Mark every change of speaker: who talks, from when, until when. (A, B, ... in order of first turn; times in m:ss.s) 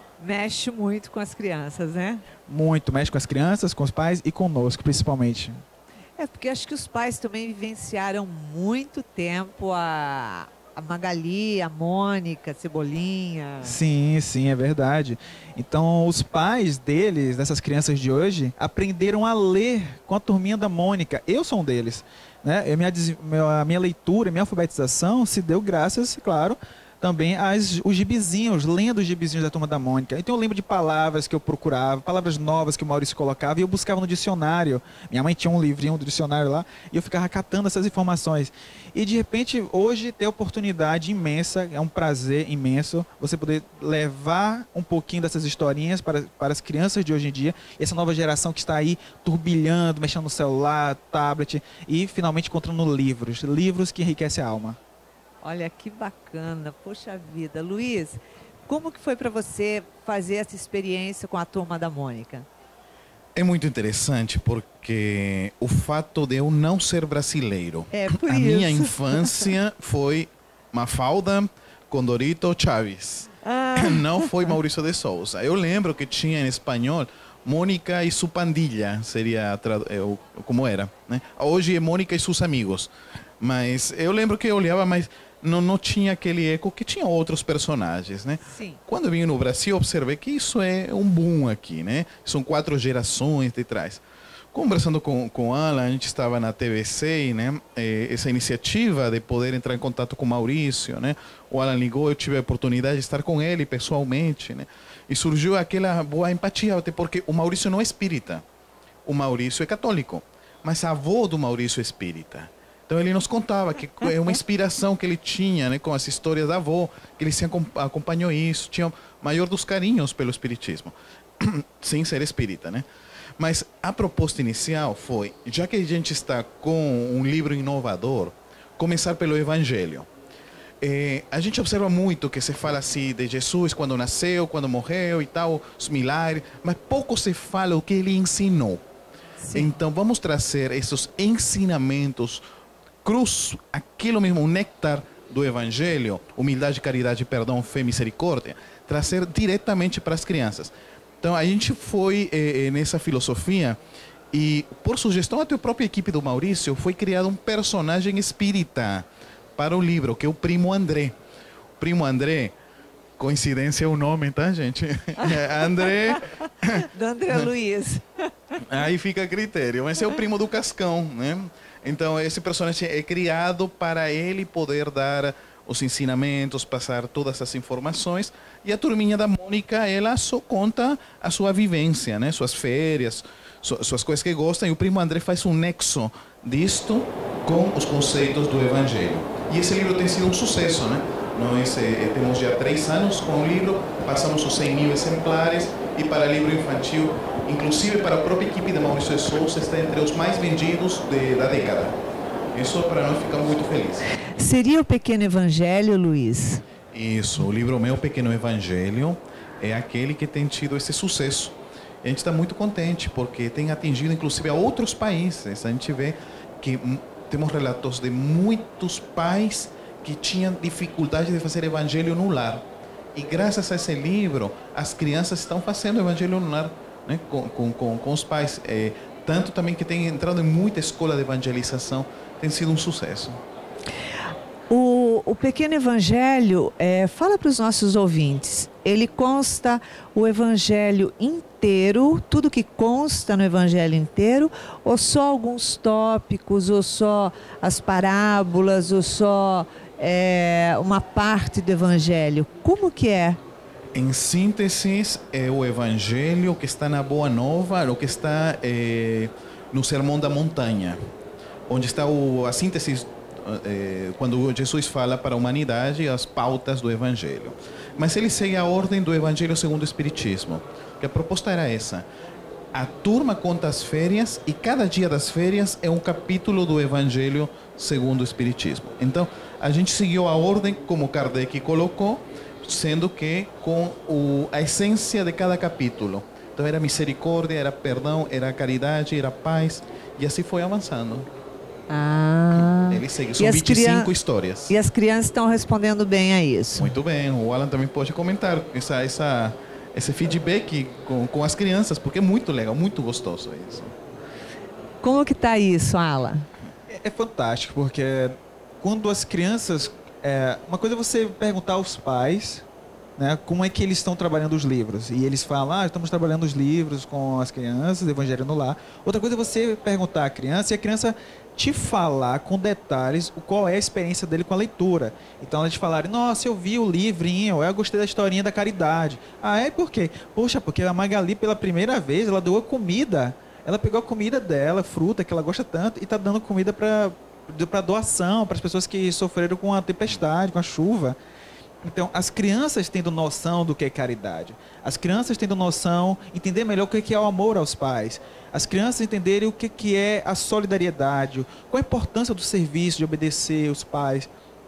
0:00.2-0:02.2 A
0:02.5-0:05.6 B
0:06.2-0:13.8 A
0:13.6-0:54.8 B
0:55.4-1:02.5 A
1:03.4-1:34.0 C
1:07.9-1:09.5 A
1:13.4-1:14.3 A
1:28.4-1:28.8 A
1:34.5-1:48.4 C
1:49.0-2:02.8 C
2:03.4-2:10.1 C
2:10.8-2:18.8 C
2:19.4-2:19.7 A
2:19.5-2:22.4 C
2:23.0-2:33.8 C
2:34.3-2:41.2 C
2:41.8-2:42.5 C
2:43.2-2:47.5 C
2:45.2-2:48.6 A
2:48.6-3:22.0 C
3:22.5-3:24.0 C
3:24.4-3:26.6 A
3:26.9-3:53.4 C
3:54.7-4:13.4 A
4:13.9-4:21.0 C
4:21.7-4:32.0 C
4:32.7-4:51.3 C
4:51.9-4:54.1 A
4:52.5-4:54.7 C
4:54.7-4:56.9 A
4:56.8-5:03.9 C
5:05.0-5:06.5 A
5:06.9-5:12.6 B
5:13.2-5:41.2 B
5:41.8-5:54.3 B